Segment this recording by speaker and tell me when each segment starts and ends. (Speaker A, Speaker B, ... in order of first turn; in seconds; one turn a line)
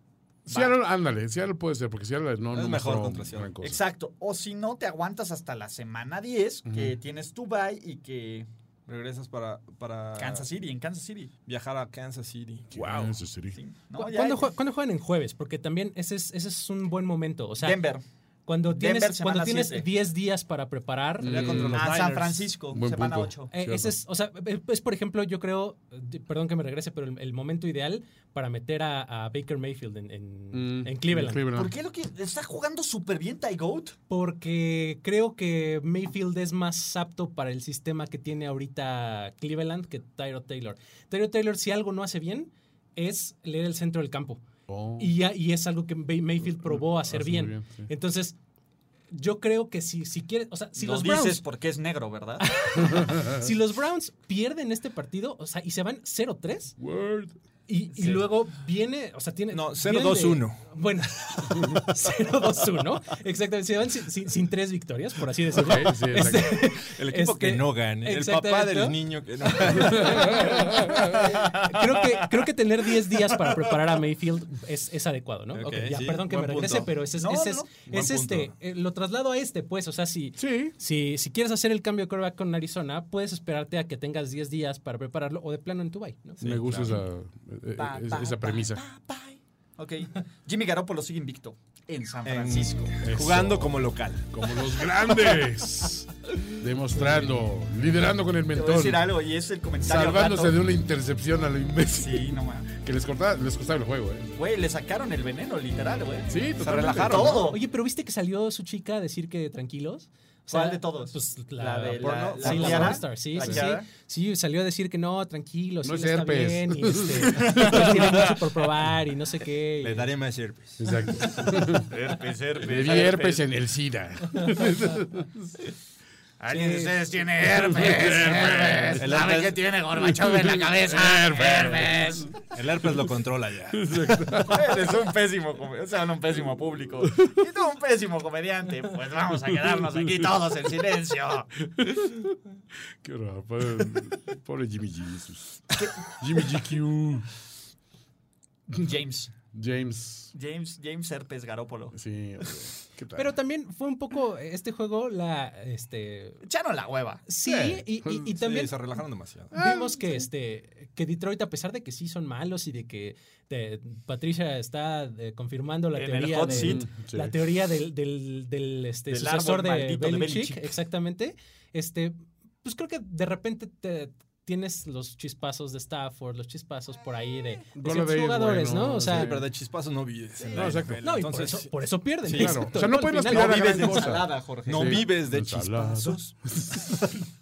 Speaker A: 0.5-0.8
Speaker B: 0.5-3.8
Speaker C: 2.5-3.6
Speaker A: 3.6-8.5
Speaker B: 6.7-7.0
Speaker C: 8.9-10.5
Speaker A: 10.2-11.3
Speaker C: 11.5-13.2
Speaker B: 12.7-13.6
Speaker A: 13.5-14.5
Speaker D: 13.9-17.8
Speaker A: 17.6-18.0
Speaker D: 18.4-21.8
Speaker A: 18.6-19.9
Speaker B: 21.2-21.9
Speaker C: 21.2-22.5
Speaker A: 21.7-23.5
Speaker B: 22.7-23.9
Speaker D: 23.5-31.5
Speaker B: 30.5-31.7
Speaker A: 31.5-34.0
Speaker D: 34.1-44.4
Speaker B: 44.7-45.1
Speaker D: 45.0-48.4
Speaker B: 46.4-47.9
Speaker D: 49.1-51.4
Speaker A: 50.8-52.4
Speaker D: 52.4-56.7
Speaker B: 52.8-53.5
Speaker B: 56.8-57.3
Speaker D: 57.7-86.6
Speaker C: 59.5-60.6
Speaker B: 65.5-66.6
Speaker C: 66.2-70.6
Speaker B: 69.7-71.3
Speaker A: 71.3-71.8
Speaker C: 75.5-76.9
Speaker A: 77.1-77.7
Speaker C: 77.9-78.5
Speaker B: 80.4-80.7
Speaker C: 86.4-87.0
Speaker B: 86.4-88.8
Speaker A: 87.8-92.9
Speaker C: 92.2-94.3
Speaker B: 93.0-99.0
Speaker A: 98.5-100.6
Speaker B: 99.8-104.3
Speaker A: 102.0-102.7
Speaker A: 104.3-106.3
Speaker B: 106.3-107.5
Speaker C: 106.6-107.5
Speaker A: 107.0-107.6
Speaker D: 107.5-120.1
Speaker A: 110.5-113.9
Speaker C: 111.8-113.7
Speaker B: 115.8-118.3
Speaker A: 117.3-118.3
Speaker C: 119.8-120.8
Speaker B: 120.8-121.9
Speaker A: 121.7-123.5
Speaker B: 122.6-125.5
Speaker A: 126.4-132.3
Speaker D: 126.5-126.9
Speaker B: 127.4-129.1
Speaker C: 129.0-129.6
Speaker B: 129.9-132.3
Speaker C: 132.5-134.1
Speaker B: 133.7-134.9
Speaker A: 134.4-141.5
Speaker B: 141.6-142.3
Speaker B: 143.0-147.3
Speaker A: 145.8-146.5
Speaker A: 148.7-149.3
Speaker B: 149.5-150.3
Speaker A: 150.3-151.9
Speaker B: 151.9-153.3
Speaker D: 153.2-156.4
Speaker A: 156.4-157.2
Speaker D: 157.2-158.8
Speaker B: 157.4-158.3
Speaker C: 158.3-159.5
Speaker B: 159.5-160.3
Speaker D: 159.5-179.3
Speaker A: 165.9-166.8
Speaker B: 166.4-167.3
Speaker A: 169.1-170.7
Speaker B: 177.7-179.5
Speaker C: 179.0-182.7
Speaker B: 180.5-181.0
Speaker D: 180.6-184.3
Speaker B: 182.3-187.2
Speaker A: 183.2-185.1
Speaker C: 184.7-186.3